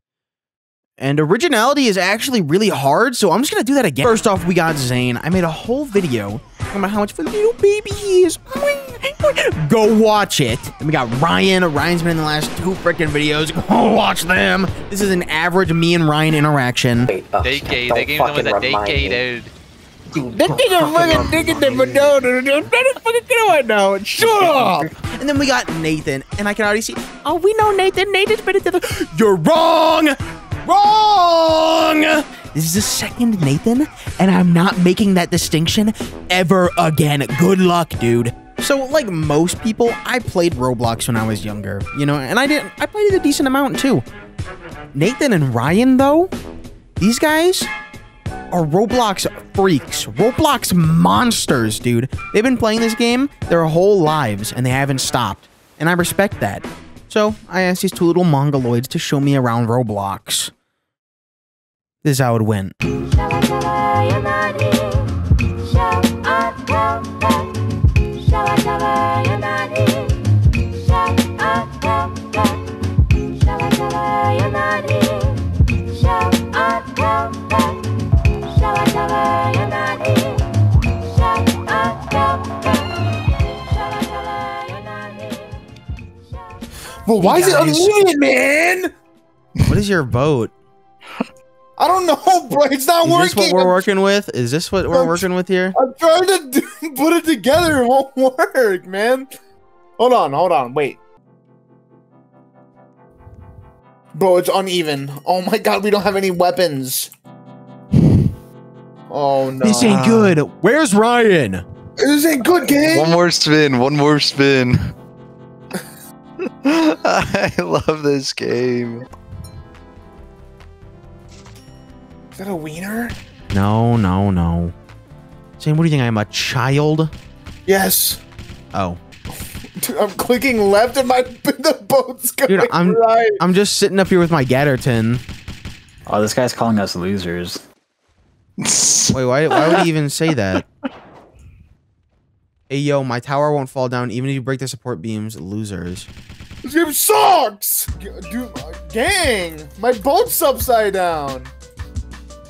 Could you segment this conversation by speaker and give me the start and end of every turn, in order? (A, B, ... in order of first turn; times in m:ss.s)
0:01.0-0:17.1 A
0:17.1-0:19.2 B
0:17.4-0:19.5 C
0:20.1-0:22.1 B
0:20.3-0:24.9 D
0:24.2-0:44.0 A
0:44.9-0:46.3 A
0:47.0-0:47.7 A
0:48.5-1:00.5 A
1:02.0-1:02.8 A
1:04.1-1:04.6 E
1:13.8-1:15.2 E
1:16.4-1:16.9 E
1:27.0-1:28.9 D
1:27.2-1:27.9 A
1:29.6-1:30.5 A
1:31.8-1:33.8 D
1:33.0-1:35.8 A
1:34.9-1:39.3 D
1:40.0-1:41.0 D
1:44.1-1:47.1 D
1:49.1-1:50.0 D
1:49.6-1:51.6 A
1:49.8-1:50.4 F
1:52.0-1:53.2 D
1:52.7-1:54.9 F
1:56.4-1:59.1 F
2:02.4-2:03.2 D
2:03.5-2:04.7 A
2:05.6-2:07.1 A
2:07.6-2:08.2 D
2:08.7-2:09.0 A
2:09.8-2:13.4 D
2:12.5-2:15.2 A
2:16.0-2:17.6 E
2:18.6-2:19.8 F
2:19.1-2:20.6 A
2:22.7-2:26.1 A
2:26.6-2:31.5 D